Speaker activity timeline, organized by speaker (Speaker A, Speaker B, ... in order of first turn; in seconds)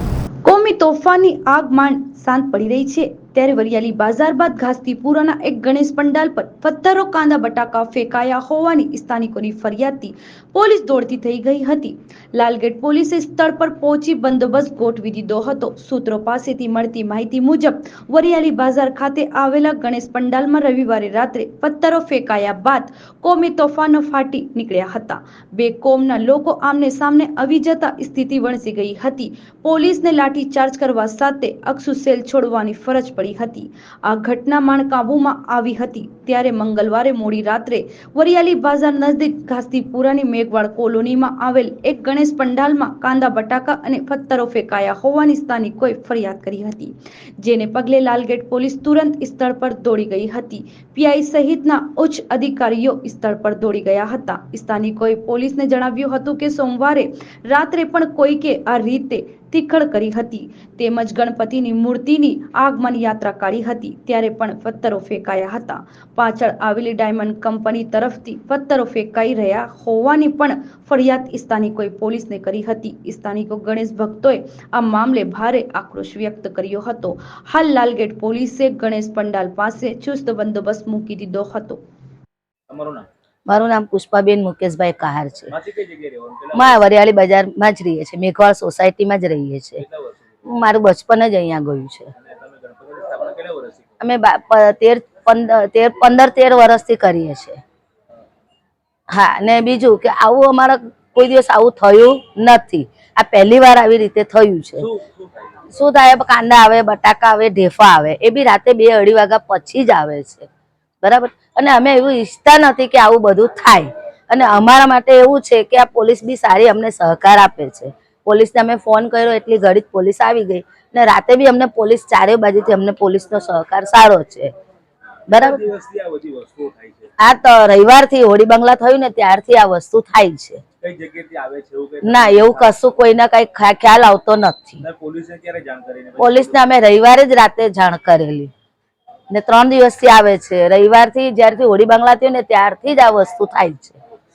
Speaker A: 0.5-81.8
Speaker B: 82.7-83.0, 85.5-86.9, 89.8-90.5, 92.1-93.9, 104.8-105.6, 125.3-127.1, 130.8-132.7, 134.8-136.6
Speaker C: 83.5-85.5, 86.5-89.8, 90.5-92.1, 94.0-97.6, 99.1-104.9, 105.7-110.5, 111.0-124.5, 125.3-125.6, 127.2-130.6, 132.0-134.8, 136.2-138.5, 139.3-144.0